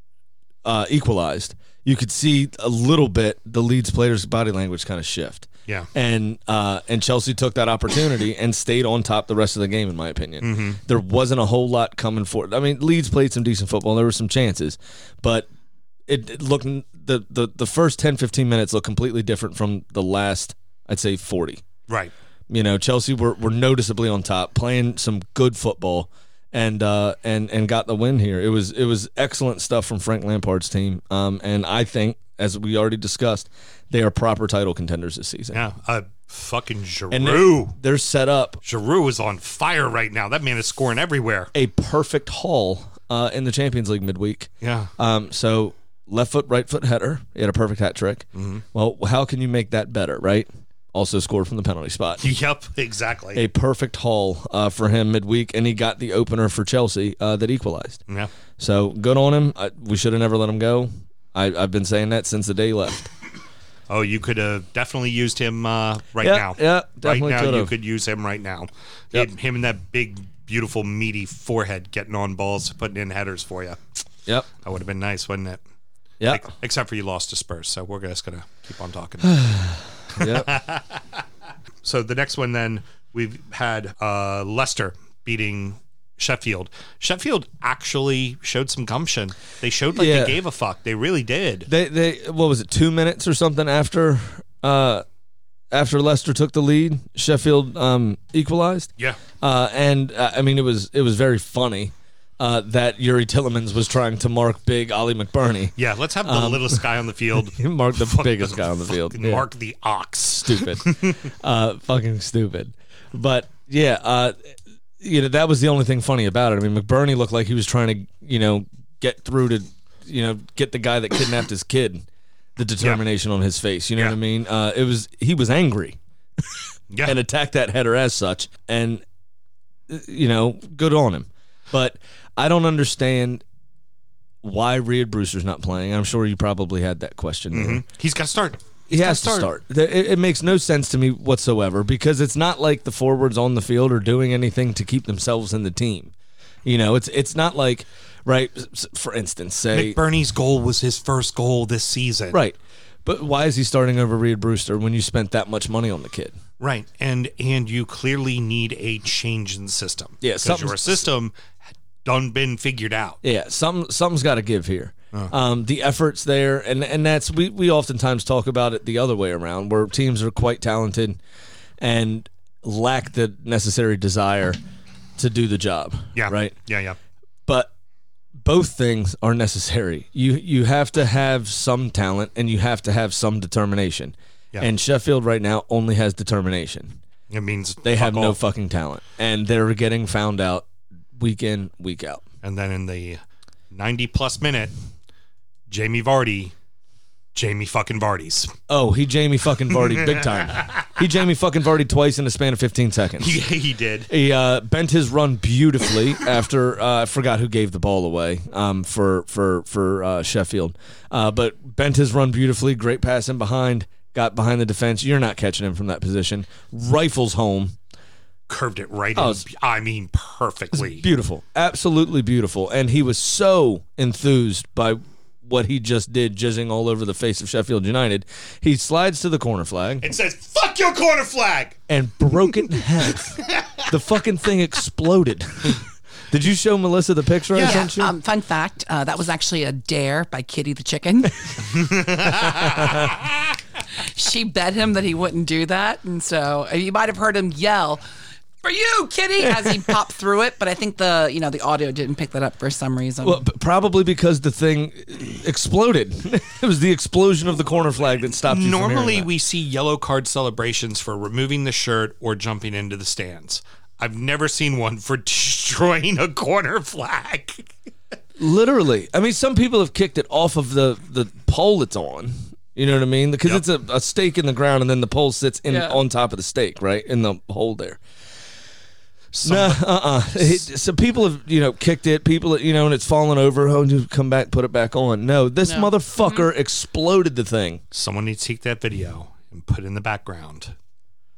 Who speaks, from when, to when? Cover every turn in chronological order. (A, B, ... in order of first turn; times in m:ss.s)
0:00.6-0:15.5 A
0:10.4-0:10.8 B
0:16.1-0:21.6 A
0:22.5-0:35.6 A
0:35.5-0:37.8 B
0:37.1-0:38.6 A
0:38.6-0:41.5 B
0:41.5-0:52.2 A
0:44.6-0:44.9 B
0:48.4-0:48.6 B
0:52.2-0:53.4 B
0:53.3-0:58.0 A
0:58.6-1:03.1 A
1:03.9-1:13.8 B
1:06.2-1:07.7 A
1:14.6-1:15.6 B
1:16.2-1:19.5 B
1:19.2-1:20.5 A
1:20.1-1:21.0 B
1:21.8-1:31.7 B
1:29.9-1:30.4 A
1:31.7-1:35.0 A
1:35.7-1:38.9 A
1:39.4-1:46.8 A
1:45.8-1:51.2 B
1:47.4-1:49.4 A
1:50.4-2:02.0 A
2:02.6-2:09.0 A
2:06.9-2:07.2 B
2:09.9-2:13.4 A
2:14.4-2:17.8 A
2:17.5-2:19.5 B
2:18.9-2:26.1 A
2:26.6-2:30.0 A
2:29.7-2:32.4 B
2:32.3-2:36.4 A
2:36.6-2:41.3 B
2:40.2-2:41.0 A
2:42.0-2:43.2 B
2:43.2-2:51.2 A
2:51.8-2:54.6 A
2:55.2-2:56.6 A
2:56.1-2:57.0 B
2:58.4-3:07.0 A
3:07.3-3:08.4 B
3:07.8-3:12.2 A
3:12.4-3:13.2 B
3:13.7-3:14.7 B
3:15.7-3:16.5 B
3:17.3-3:18.5 B
3:18.7-3:23.4 A
3:19.8-3:20.8 B
3:23.2-3:24.1 B
3:24.1-3:37.8 A
3:38.5-3:41.0 B
3:39.2-3:39.4 A
3:40.7-3:50.1 A
3:50.0-3:51.8 B
3:51.9-3:58.1 A
3:53.4-3:53.8 B
3:57.5-3:57.9 B
3:57.6-4:01.7 C
4:01.8-4:02.8 B
4:02.5-4:02.9 A
4:04.0-4:08.0 C
4:08.6-4:13.4 C
4:09.4-4:09.9 A
4:13.2-4:19.3 A
4:18.4-4:27.7 B
4:28.4-4:38.0 A
4:39.3-4:40.6 B
4:39.4-4:47.8 A
4:47.9-4:50.7 B